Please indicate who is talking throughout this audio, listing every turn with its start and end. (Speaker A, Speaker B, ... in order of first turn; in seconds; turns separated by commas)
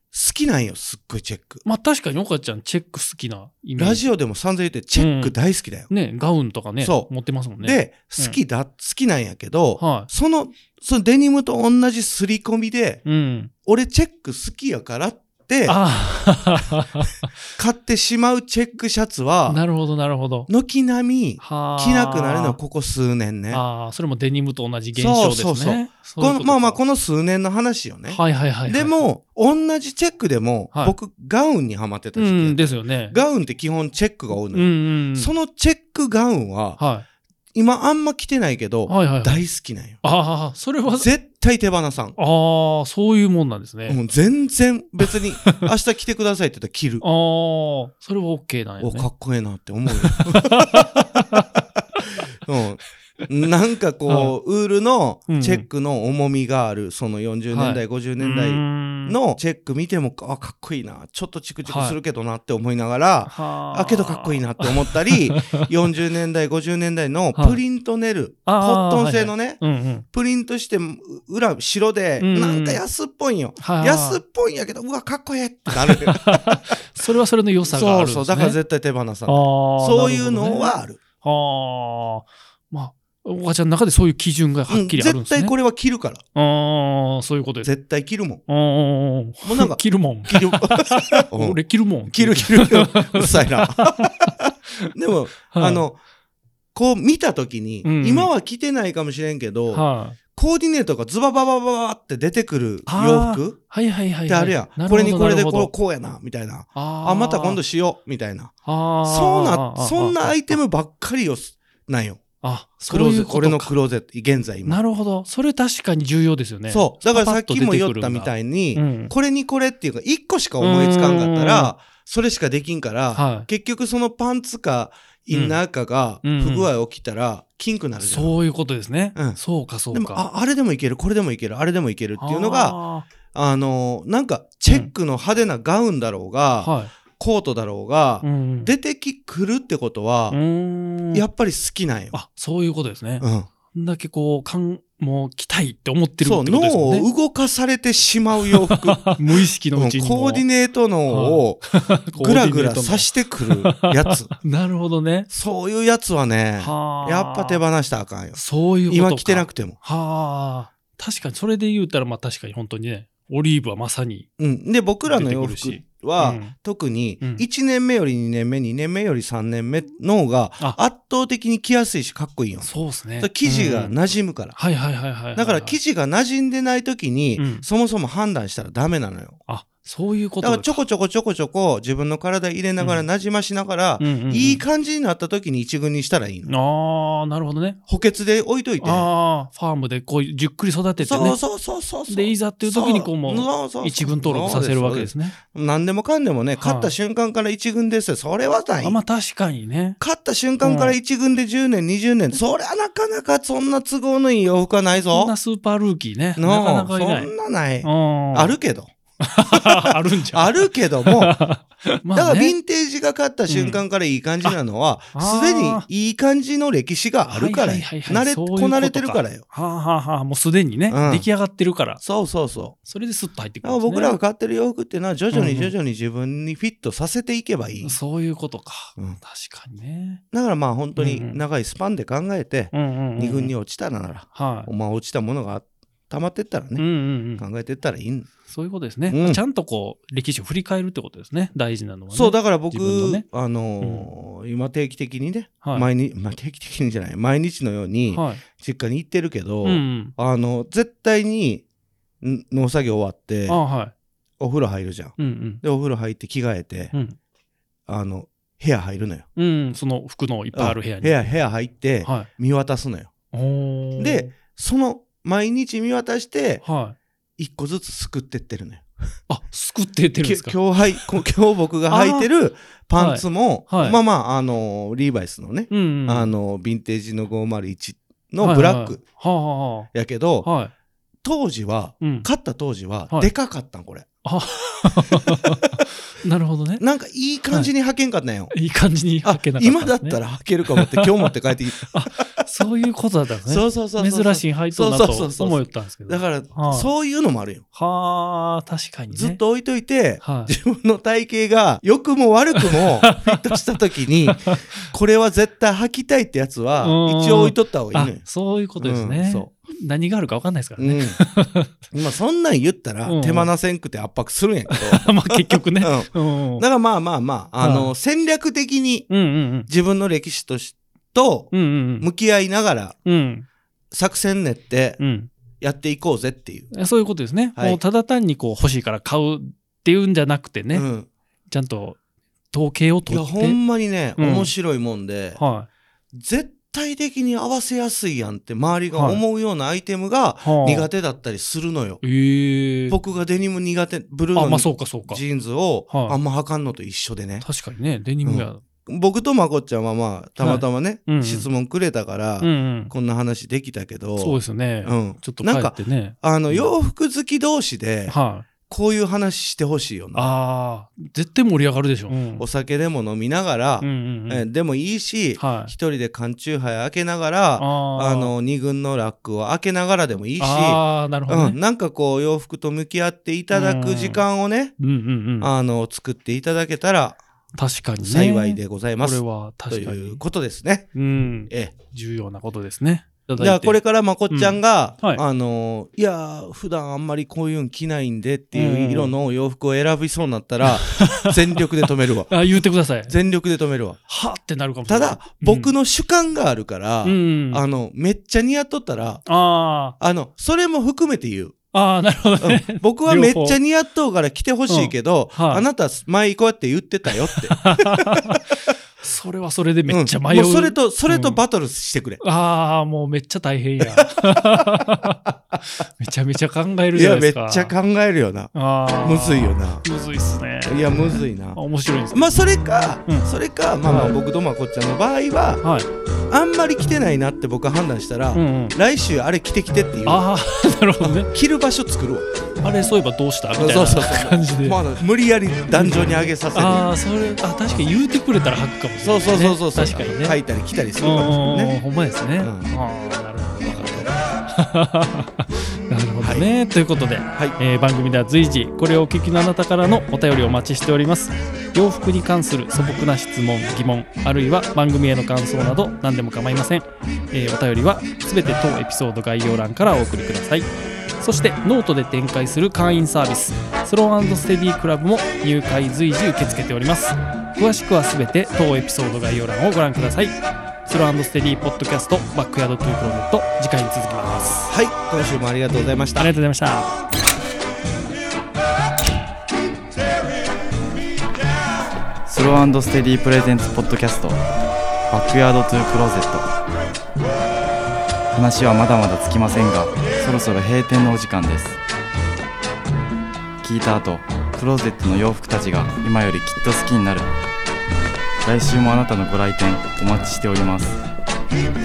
Speaker A: 0.1-1.6, Speaker B: 1.6-4.0, Speaker A: 3.8-5.9, Speaker B: 5.0-5.3, Speaker B: 5.9-8.4, Speaker A: 6.8-13.0, Speaker B: 9.8-10.1, Speaker B: 13.0-13.5, Speaker A: 13.6-15.8, Speaker B: 15.7-17.3, Speaker A: 17.6-19.6, Speaker B: 19.5-20.5, Speaker A: 20.5-23.6, Speaker B: 21.4-22.6, Speaker B: 23.5-26.8, Speaker A: 24.9-36.8, Speaker B: 28.1-29.0, Speaker B: 30.7-31.0, Speaker B: 32.1-33.2, Speaker B: 34.5-35.3, Speaker B: 36.8-37.0, Speaker A: 37.5-40.0, Speaker B: 38.9-39.4, Speaker B: 40.0-41.1, Speaker A: 40.9-42.1, Speaker B: 42.1-44.0, Speaker A: 43.9-47.0, Speaker B: 47.0-49.1, Speaker A: 48.8-51.8, Speaker B: 49.9-51.5, Speaker A: 52.3-76.8, Speaker B: 54.1-54.3, Speaker B: 55.3-55.6, Speaker B: 57.5-59.2, Speaker B: 61.6-62.0, Speaker B: 63.3-65.7, Speaker B: 67.3-67.6, Speaker B: 68.5-70.0, Speaker B: 72.2-72.8, Speaker B: 73.6-74.2, Speaker B: 75.7-78.6, Speaker A: 77.7-81.0, Speaker B: 79.2-85.5, Speaker A: 84.7-86.2, Speaker B: 86.3-87.7, Speaker A: 87.6-88.4, Speaker B: 88.5-94.9, Speaker A: 89.4-96.0, Speaker B: 95.5-95.8, Speaker A: 96.7-103.6, Speaker B: 97.8-98.3, Speaker B: 99.7-100.2, Speaker B: 102.9-105.7, Speaker A: 104.2-108.5, Speaker B: 106.7-107.6, Speaker B: 108.6-110.6, Speaker A: 109.0-112.2, Speaker B: 112.4-113.7, Speaker A: 112.9-114.8, Speaker B: 114.7-119.1, Speaker A: 116.7-128.4, Speaker B: 120.6-121.7, Speaker B: 123.1-123.5, Speaker B: 125.3-125.6, Speaker B: 126.2-126.7, Speaker B: 128.0-130.2, Speaker A: 129.9-132.8, Speaker B: 132.2-133.1, Speaker A: 133.3-140.4, Speaker B: 136.6-136.9, Speaker B: 138.2-138.7, Speaker B: 140.3-141.2, Speaker A: 141.1-142.1, Speaker B: 142.1-147.1, Speaker A: 143.2-143.5, Speaker A: 146.2-151.6, Speaker B: 148.6-150.4, Speaker B: 151.1-155.3, Speaker A: 152.2-154.3, Speaker A: 155.3-159.8, Speaker B: 156.6-157.6, Speaker B: 158.3-164.3, Speaker A: 164.4-174.6, Speaker B: 165.0-166.5, Speaker B: 167.2-167.4, Speaker B: 172.6-174.0, Speaker B: 174.5-175.8, Speaker A: 175.3-179.4, Speaker B: 177.4-177.7, Speaker B: 179.5-180.8, Speaker A: 180.4-186.5, Speaker B: 182.8-183.1, Speaker B: 184.0-184.6, Speaker B: 186.4-187.8, Speaker A: 187.9-189.1, Speaker B: 188.8-191.4, Speaker A: 191.0-199.0, Speaker B: 192.1-195.4, Speaker B: 196.6-196.9, Speaker B: 198.8-200.0, Speaker A: 200.0-205.3, Speaker B: 200.6-201.0, Speaker B: 205.1-207.3, Speaker A: 206.4-208.9, Speaker B: 207.8-208.6, Speaker B: 209.2-212.6, Speaker A: 209.5-211.3, Speaker A: 212.1-219.4, Speaker B: 213.5-213.8, Speaker B: 215.1-215.8, Speaker B: 217.3-222.0, Speaker A: 220.9-221.3, Speaker A: 222.0-222.8, Speaker B: 222.8-224.2, Speaker A: 223.6-228.0, Speaker B: 225.3-225.7, Speaker B: 227.8-230.2, Speaker A: 230.3-238.3, Speaker B: 230.9-231.4, Speaker B: 232.7-233.5, Speaker B: 234.3-234.7, Speaker B: 236.8-237.4, Speaker B: 238.5-243.2, Speaker A: 239.1-239.4, Speaker A: 242.1-251.6, Speaker B: 243.8-244.1, Speaker B: 245.6-245.9, Speaker B: 248.1-248.4, Speaker B: 249.6-250.1, Speaker A: 252.2-253.6, Speaker B: 253.5-253.9, Speaker A: 254.4-256.9, Speaker B: 255.2-255.6, Speaker B: 256.9-257.2, Speaker A: 257.9-259.2, Speaker B: 259.4-261.3, Speaker A: 260.5-263.1, Speaker B: 262.0-262.3, Speaker B: 263.3-264.3, Speaker A: 264.0-266.6, Speaker B: 266.6-266.9, Speaker A: 267.4-268.9, Speaker B: 269.3-271.2, Speaker A: 270.2-279.0, Speaker B: 271.9-272.3, Speaker B: 273.0-274.0, Speaker B: 275.7-276.3, Speaker B: 278.4-279.9, Speaker A: 279.9-280.5, Speaker B: 280.4-280.7, Speaker A: 281.2-284.1, Speaker B: 282.0-282.3, Speaker B: 284.2-286.8, Speaker A: 284.7-285.8, Speaker A: 286.8-288.5, Speaker B: 288.5-296.9, Speaker A: 289.2-292.4, Speaker A: 293.5-297.6, Speaker B: 297.7-299.4, Speaker A: 299.1-308.2, Speaker B: 300.2-300.6, Speaker B: 302.6-303.6, Speaker B: 304.3-304.9, Speaker B: 306.8-311.9, Speaker A: 308.8-309.5, Speaker A: 310.8-311.2, Speaker A: 311.9-319.1, Speaker B: 313.0-313.5, Speaker B: 314.7-316.6, Speaker B: 317.6-317.9, Speaker B: 319.1-319.7, Speaker A: 319.7-322.9, Speaker B: 321.5-322.1, Speaker B: 323.0-323.4, Speaker A: 323.9-325.0, Speaker B: 325.0-325.3, Speaker A: 325.6-326.7, Speaker B: 326.7-330.9, Speaker A: 330.7-331.1, Speaker B: 331.5-332.0, Speaker B: 332.5-333.6, Speaker A: 333.1-335.4, Speaker B: 334.2-334.5, Speaker B: 335.4-335.7, Speaker A: 336.1-342.0, Speaker B: 338.9-339.2, Speaker B: 340.4-340.9, Speaker B: 342.0-343.0, Speaker A: 342.9-347.4, Speaker B: 344.3-345.2, Speaker B: 345.9-346.2, Speaker B: 347.4-348.6, Speaker A: 348.2-360.3, Speaker B: 350.4-351.5, Speaker B: 352.4-352.9, Speaker B: 354.2-356.7, Speaker B: 358.1-358.5, Speaker B: 360.1-362.4, Speaker A: 362.3-374.8, Speaker B: 363.8-364.4, Speaker B: 365.4-365.7, Speaker B: 367.6-368.3, Speaker B: 370.4-371.6, Speaker B: 373.5-374.2, Speaker B: 374.8-375.5, Speaker A: 375.4-377.2, Speaker B: 377.5-380.2, Speaker A: 378.0-380.9, Speaker B: 380.9-385.2, Speaker A: 383.4-392.5, Speaker B: 388.5-389.1, Speaker B: 390.6-393.1, Speaker A: 393.1-394.0, Speaker B: 394.1-395.7, Speaker A: 394.9-399.2, Speaker B: 397.0-397.6, Speaker B: 399.2-400.0, Speaker A: 400.0-401.6, Speaker B: 401.7-403.6, Speaker A: 402.4-408.4, Speaker B: 404.7-405.6, Speaker B: 407.3-411.4, Speaker A: 409.9-412.2, Speaker B: 412.2-417.7, Speaker A: 413.8-415.0, Speaker A: 416.9-419.8, Speaker B: 418.5-423.3, Speaker A: 420.6-421.6, Speaker A: 422.1-425.6, Speaker B: 423.8-424.2, Speaker B: 425.6-425.9, Speaker A: 426.3-430.2, Speaker B: 428.3-428.8, Speaker B: 430.1-431.3, Speaker A: 431.0-432.3, Speaker B: 432.6-434.8, Speaker A: 433.6-436.9, Speaker B: 435.7-440.4, Speaker A: 439.0-441.8, Speaker B: 441.0-460.7, Speaker A: 442.4-442.7, Speaker A: 443.6-444.1, Speaker A: 446.2-446.5, Speaker B: 461.2-474.7, Speaker A: 474.7-476.3, Speaker B: 476.2-476.9, Speaker C: 482.3-484.4, Speaker C: 485.1-486.5, Speaker C: 488.3-491.8, Speaker C: 493.6-497.3, Speaker C: 498.4-501.0